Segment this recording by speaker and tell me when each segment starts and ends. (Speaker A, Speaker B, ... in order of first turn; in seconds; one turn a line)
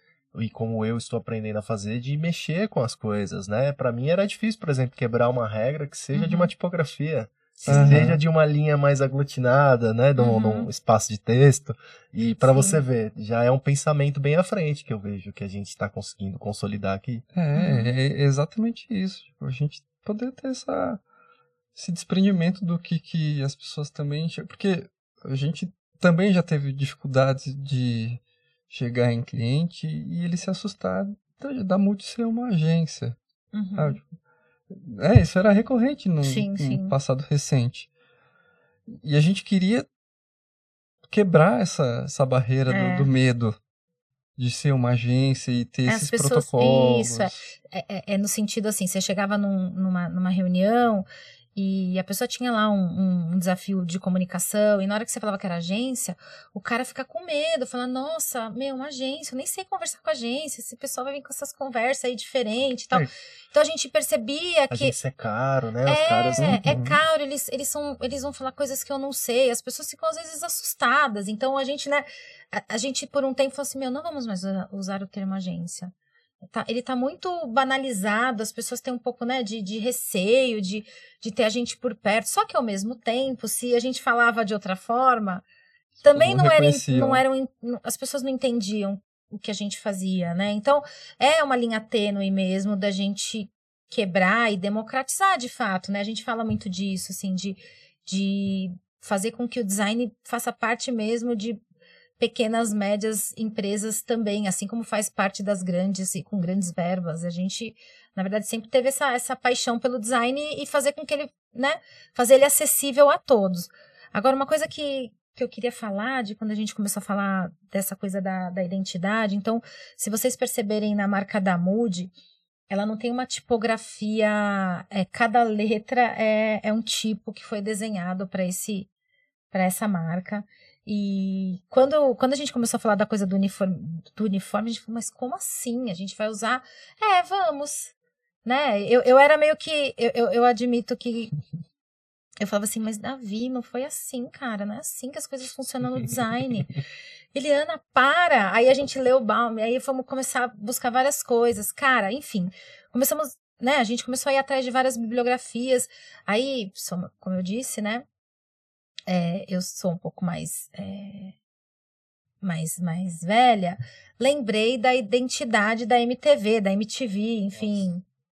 Speaker A: 0.3-17.2
Speaker B: 6.1-6.5
Speaker B: 7.6-8.0
Speaker C: 7.7-8.2
Speaker B: 10.2-10.7
Speaker B: 12.3-12.8
Speaker C: 17.3-21.0
Speaker B: 17.6-17.9
Speaker C: 21.8-33.2
Speaker B: 33.5-34.0
Speaker C: 33.8-34.1
Speaker C: 34.7-37.9
Speaker B: 36.2-37.0
Speaker C: 38.9-39.9
Speaker C: 41.1-43.6
Speaker B: 42.7-43.1
Speaker C: 44.4-47.5
Speaker B: 45.9-65.0
Speaker A: 64.7-66.6
Speaker B: 65.8-85.5
Speaker C: 66.4-67.0
Speaker B: 86.0-101.6
Speaker C: 86.1-87.2
Speaker B: 102.2-122.1
Speaker B: 122.7-128.9
Speaker B: 129.5-137.9
Speaker B: 138.4-141.3
Speaker B: 142.4-146.7
Speaker B: 147.3-158.1
Speaker B: 159.1-161.3
Speaker B: 162.4-168.0